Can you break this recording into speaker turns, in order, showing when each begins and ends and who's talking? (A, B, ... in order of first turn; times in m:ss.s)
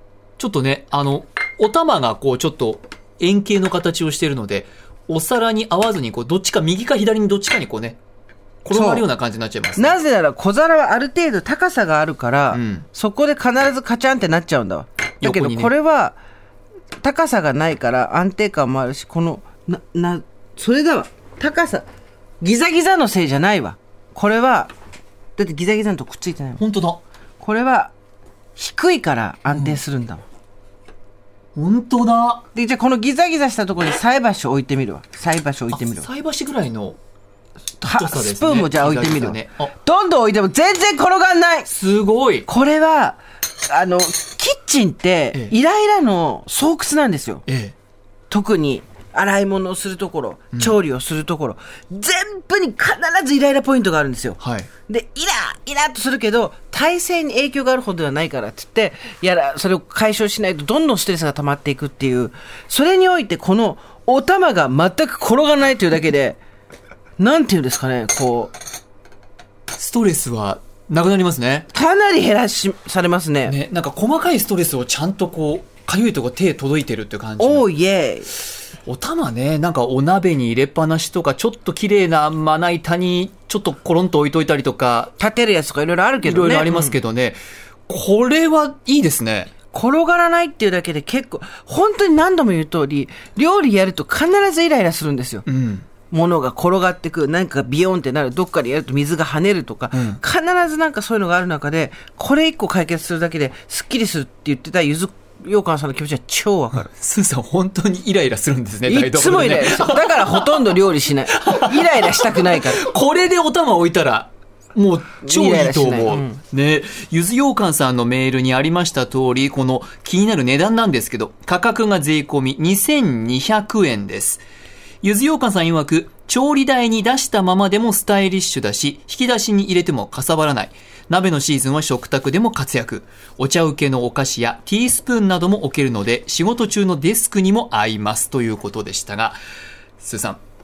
0:00.4-0:08.0 A
0:08.6-0:10.0 A
0:08.7-0:09.1 B
0:09.8-0:16.2 B
0:12.5-0:12.8 A
0:15.2-0:15.7 A
0:17.0-0:21.8 B
0:22.4-0:24.7 B
0:25.4-0:26.6 B
0:26.6-0:27.0 A
0:27.4-0:27.9 B
0:28.6-0:30.2 B
0:29.5-0:29.8 A
0:31.6-0:32.4 A
0:32.5-0:36.1 B
0:35.7-0:37.0 A
0:37.8-0:41.7 B
0:37.8-0:39.7 A
0:41.7-0:42.5 A
0:42.5-0:47.4 B
0:47.5-0:47.7 A
0:48.3-1:06.4 B
0:54.4-0:54.7 A
1:07.2-1:08.5 B
1:09.8-1:11.7 A
1:11.7-1:13.5 B
1:13.5-1:17.7 A
1:17.4-1:18.3 B
1:18.8-1:25.1 A
1:25.2-1:27.0 B
1:26.2-1:29.5 A
1:29.7-1:35.5 B
1:35.5-1:35.9 A
1:36.1-1:46.9 B
1:39.9-1:40.2 A
1:46.9-1:50.7 A
1:48.8-1:52.8 B
1:51.3-2:04.4 A
1:55.2-1:56.4 B
2:05.0-2:19.4 A
2:20.0-2:20.4 A